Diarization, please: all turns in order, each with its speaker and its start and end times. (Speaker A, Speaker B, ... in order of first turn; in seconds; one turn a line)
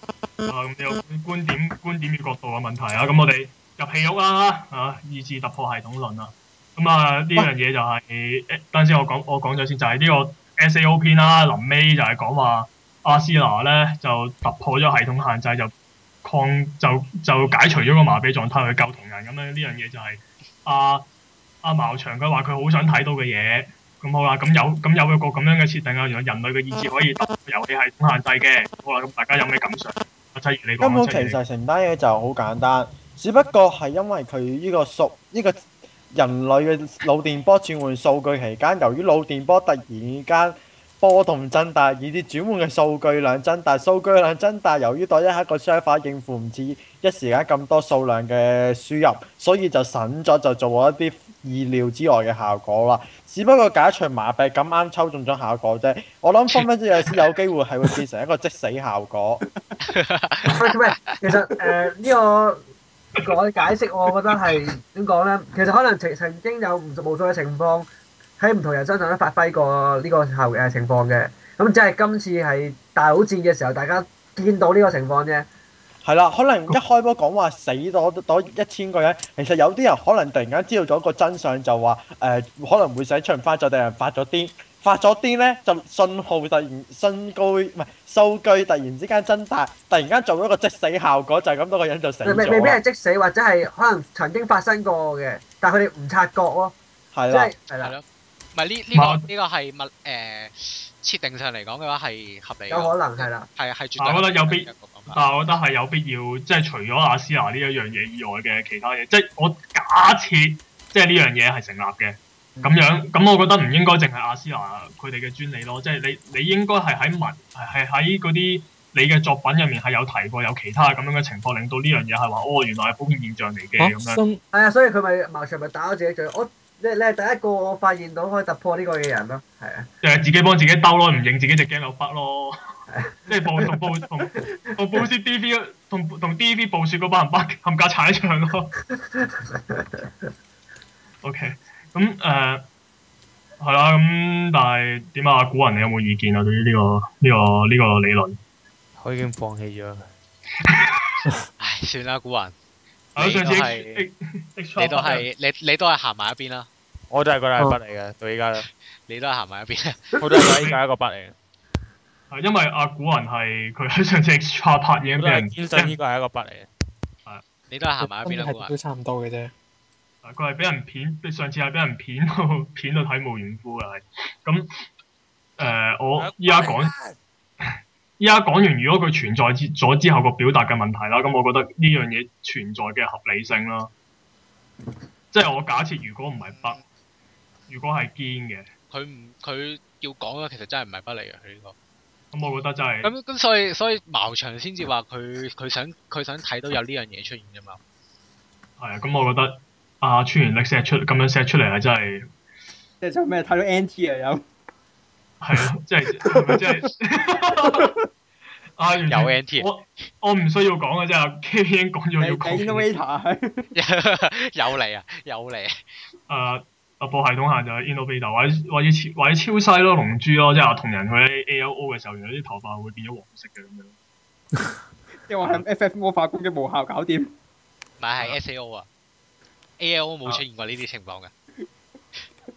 Speaker A: 0.5-15.7
Speaker A: 16.2-21.1
Speaker A: 21.6-31.4
Speaker B: 30.8-35.6
Speaker B: 36.1-59.4
Speaker C: 59.9-60.6
Speaker D: 60.5-62.6
Speaker D: 63.1-67.9
Speaker D: 68.4-75.5
Speaker B: 76.0-92.8
Speaker D: 92.2-96.8
Speaker B: 97.1-97.5
Speaker D: 97.3-97.9
Speaker C: 97.8-105.2
Speaker A: 98.9-99.2
Speaker D: 102.7-103.5
Speaker A: 104.0-124.2
Speaker E: 123.8-124.4
Speaker D: 124.5-129.9
Speaker A: 130.0-132.6
Speaker D: 132.9-133.7
Speaker A: 133.3-138.7
Speaker D: 139.2-140.0
Speaker A: 141.2-142.7
Speaker A: 143.6-148.4
Speaker F: 149.0-150.1
Speaker A: 150.7-151.1
Speaker C: 151.6-152.5
Speaker A: 153.1-155.2
Speaker C: 153.2-154.1
Speaker C: 154.8-156.7
Speaker F: 157.1-158.7
Speaker C: 159.1-160.1
Speaker F: 160.2-161.3
Speaker A: 162.3-166.0
Speaker F: 165.2-166.7
Speaker C: 167.7-168.7
Speaker E: 168.0-169.5
Speaker A: 170.2-174.7
Speaker A: 175.6-176.9
Speaker F: 176.2-177.2
Speaker A: 178.2-183.9
Speaker A: 185.3-186.8
Speaker C: 186.5-186.8
Speaker A: 187.7-188.7
Speaker C: 188.9-191.7
Speaker A: 192.3-193.1
Speaker C: 193.0-197.8
Speaker A: 198.8-202.3
Speaker G: 203.0-204.4
Speaker A: 205.4-207.9
Speaker G: 206.3-206.8
Speaker A: 208.8-212.9
Speaker C: 209.1-209.7
Speaker G: 212.2-213.7
Speaker C: 213.7-215.7
Speaker A: 216.3-223.9
Speaker G: 225.3-227.3
Speaker C: 228.0-228.9
Speaker C: 229.8-231.3